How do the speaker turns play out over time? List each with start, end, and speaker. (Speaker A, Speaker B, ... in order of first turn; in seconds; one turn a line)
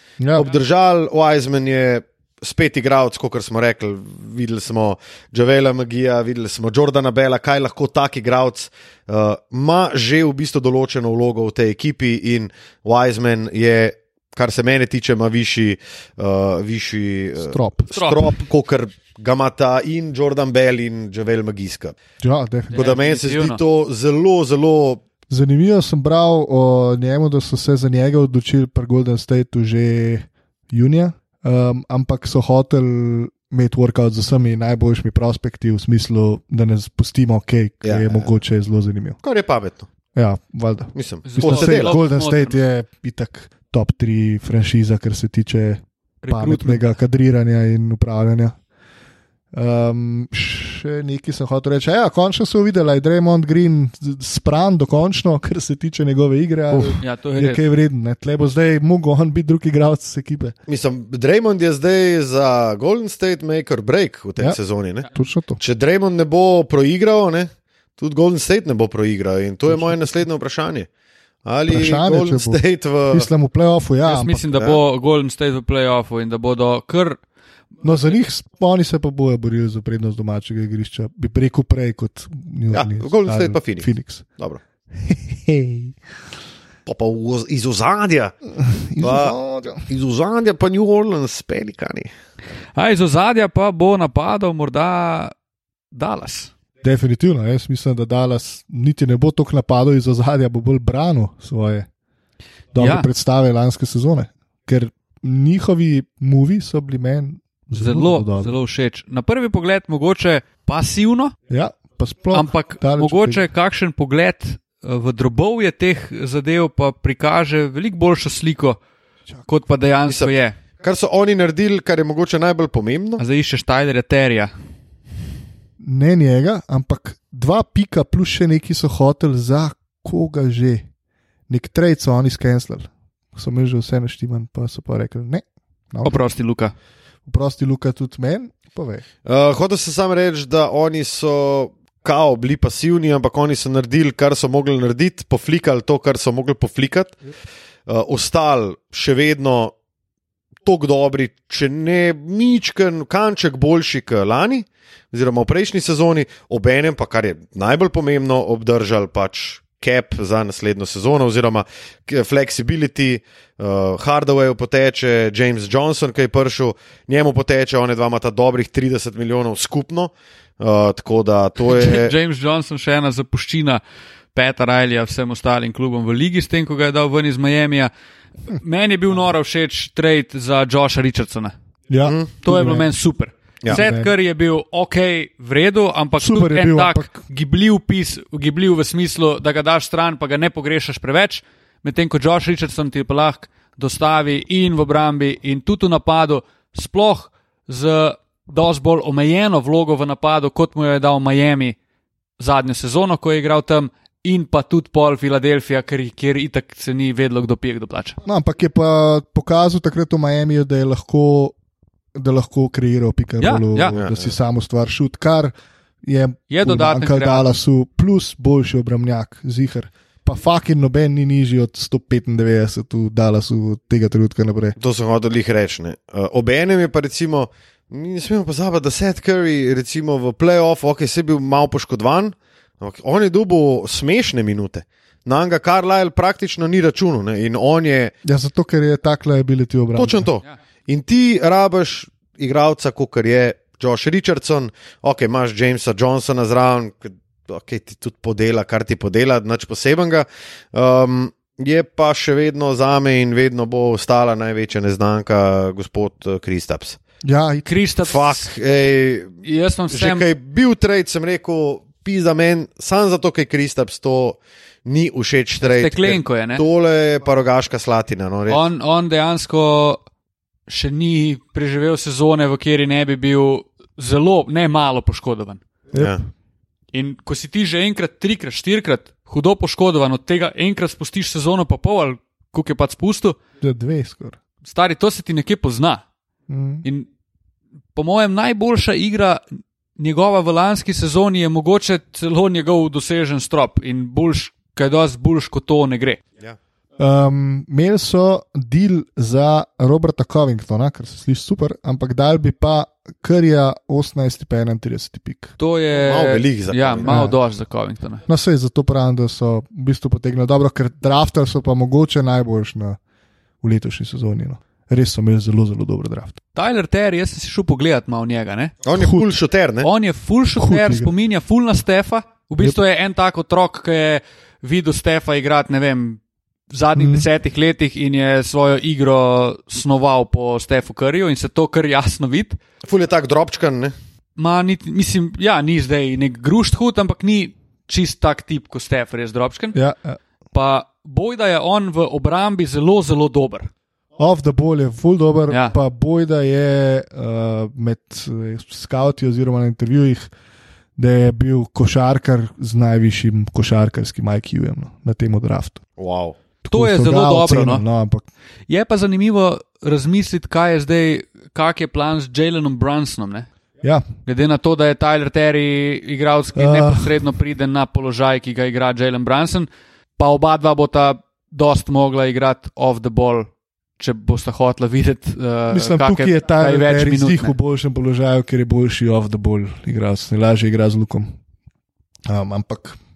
Speaker A: 0.2-0.5
Speaker B: 0.3-22.0
Speaker A: 17.5-17.9
Speaker C: 17.9-18.3
Speaker A: 22.2-22.9
Speaker C: 22.7-23.6
Speaker B: 22.7-25.0
Speaker A: 25.3-39.2
Speaker B: 37.8-38.3
Speaker B: 39.2-39.9
Speaker A: 40.1-48.5
Speaker B: 40.9-42.0
Speaker C: 41.3-42.6
Speaker C: 46.2-46.9
Speaker A: 49.5-60.5
Speaker C: 56.7-57.6
Speaker B: 60.7-65.1
Speaker A: 65.1-65.6
Speaker B: 65.6-70.9
Speaker A: 69.7-70.0
Speaker B: 71.4-73.3
Speaker A: 71.7-74.4
Speaker C: 74.0-77.2
Speaker A: 77.8-84.2
Speaker B: 82.7-84.6
Speaker A: 85.0-86.0
Speaker B: 86.8-88.3
Speaker A: 88.6-89.8
Speaker B: 89.0-89.3
Speaker B: 89.9-92.1
Speaker C: 92.8-95.3
Speaker C: 95.9-96.5
Speaker A: 96.8-101.9
Speaker A: 102.7-108.5
Speaker C: 102.8-103.1
Speaker C: 107.7-111.3
Speaker A: 111.5-113.4
Speaker C: 112.3-118.8
Speaker C: 119.5-120.5
Speaker B: 120.1-123.2
Speaker C: 123.2-124.5
Speaker A: 125.8-130.8
Speaker A: 131.5-136.2
Speaker C: 136.0-136.7
Speaker A: 137.2-139.0
Speaker B: 139.2-147.1
Speaker B: 147.9-149.7
Speaker B: 150.6-172.1
Speaker C: 171.7-173.8
Speaker C: 174.3-177.9
Speaker C: 178.5-181.5
Speaker A: 181.9-182.9
Speaker B: 182.0-182.3
Speaker C: 182.4-201.8
Speaker A: 183.7-184.1
Speaker A: 186.2-187.2
Speaker C: 202.4-208.2
Speaker A: 208.2-211.5
Speaker A: 212.2-224.8
Speaker C: 213.4-213.9
Speaker B: 213.9-214.3
Speaker C: 216.5-217.5
Speaker B: 224.8-238.1
Speaker A: 238.2-240.3
Speaker B: 239.9-257.0
Speaker A: 257.2-257.7
Speaker C: 257.6-258.5
Speaker B: 258.0-259.4
Speaker C: 259.4-260.2
Speaker B: 259.9-268.6
Speaker C: 265.6-266.6
Speaker C: 268.5-270.0
Speaker C: 270.7-275.6
Speaker A: 275.9-276.2
Speaker B: 275.9-276.2
Speaker C: 276.9-283.4
Speaker A: 283.6-284.4
Speaker C: 284.6-286.0
Speaker A: 286.5-286.8
Speaker C: 287.9-289.4
Speaker C: 290.0-296.2
Speaker A: 297.0-305.6
Speaker C: 305.6-308.2
Speaker B: 305.9-307.3
Speaker A: 307.1-307.4
Speaker A: 308.3-313.0
Speaker A: 313.6-316.4
Speaker C: 316.6-318.7
Speaker B: 318.8-319.9
Speaker A: 319.0-319.3
Speaker C: 319.8-326.2
Speaker A: 320.6-321.1
Speaker C: 326.7-332.6
Speaker A: 327.0-327.3
Speaker B: 332.8-333.9
Speaker C: 334.4-339.8
Speaker A: 339.7-340.2
Speaker C: 340.5-343.7
Speaker A: 344.2-350.3
Speaker C: 345.5-345.8
Speaker A: 351.0-355.8
Speaker B: 356.0-356.4
Speaker A: 356.6-358.2
Speaker C: 356.7-357.8
Speaker C: 358.7-363.5
Speaker C: 364.2-373.5
Speaker A: 366.6-367.1
Speaker C: 374.0-377.5
Speaker A: 375.7-381.3
Speaker A: 382.2-383.0